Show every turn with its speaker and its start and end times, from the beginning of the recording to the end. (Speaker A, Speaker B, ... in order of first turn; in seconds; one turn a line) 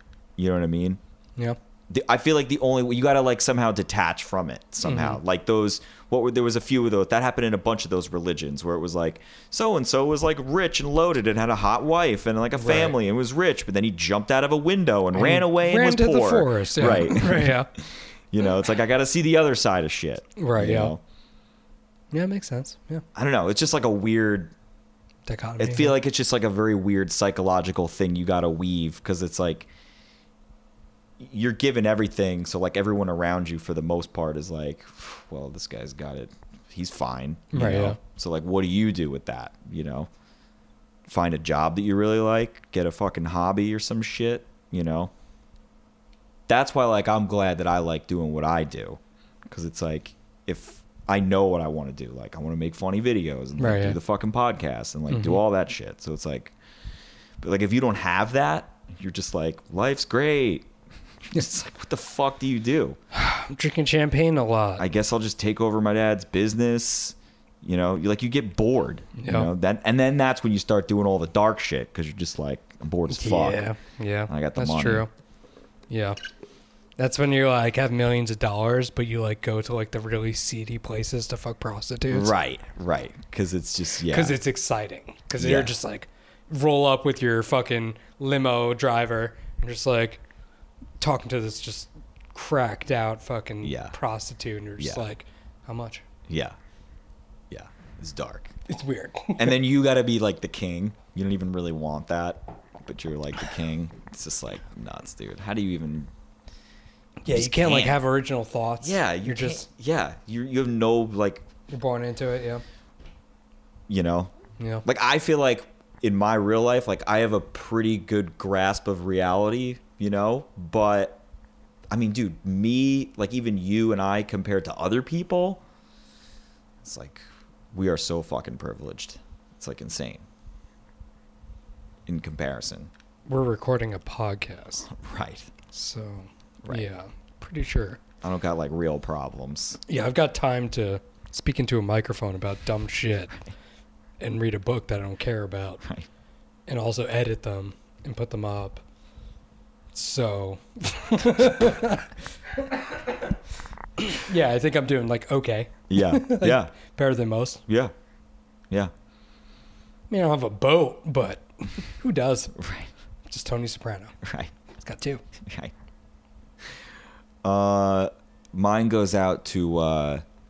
Speaker A: 0.4-1.0
Speaker A: 1.9-21.0
Speaker B: 4.8-5.2
Speaker B: 12.6-12.9
Speaker B: 15.1-17.7
Speaker B: 20.4-20.9
Speaker B: 22.1-23.0
Speaker A: 23.1-24.5
Speaker B: 25.3-25.9
Speaker A: 25.6-29.7
Speaker A: 31.2-40.1
Speaker B: 37.5-38.0
Speaker A: 41.0-45.1
Speaker A: 46.5-56.5
Speaker B: 53.6-54.0
Speaker B: 55.1-55.4
Speaker A: 57.4-60.7
Speaker A: 61.2-63.0
Speaker B: 63.1-64.8
Speaker A: 64.8-73.6
Speaker B: 69.2-69.5
Speaker B: 73.1-75.1
Speaker A: 74.3-75.0
Speaker B: 75.9-76.2
Speaker B: 77.0-82.3
Speaker A: 82.1-84.3
Speaker B: 84.1-90.2
Speaker A: 85.4-85.7
Speaker B: 91.0-96.0
Speaker A: 93.6-93.9
Speaker A: 94.8-95.0
Speaker A: 96.3-96.5
Speaker A: 97.5-98.5
Speaker B: 98.7-99.6
Speaker A: 99.4-106.1
Speaker B: 107.2-109.7
Speaker A: 107.3-108.0
Speaker A: 108.8-111.5
Speaker B: 111.7-112.6
Speaker A: 113.9-114.3
Speaker B: 114.6-114.8
Speaker A: 114.8-121.2
Speaker A: 121.9-125.6
Speaker A: 126.8-130.2
Speaker A: 132.1-132.9
Speaker B: 133.3-134.9
Speaker A: 134.9-135.5
Speaker B: 135.7-138.0
Speaker A: 138.2-139.8
Speaker B: 139.9-143.3
Speaker B: 144.2-145.8
Speaker B: 146.7-148.8
Speaker B: 149.9-153.3
Speaker B: 154.0-157.6
Speaker A: 155.9-156.7
Speaker B: 160.1-162.6
Speaker A: 162.5-162.9
Speaker B: 163.3-164.2
Speaker A: 164.2-164.5
Speaker B: 164.8-165.2
Speaker A: 165.4-165.7
Speaker A: 167.4-170.2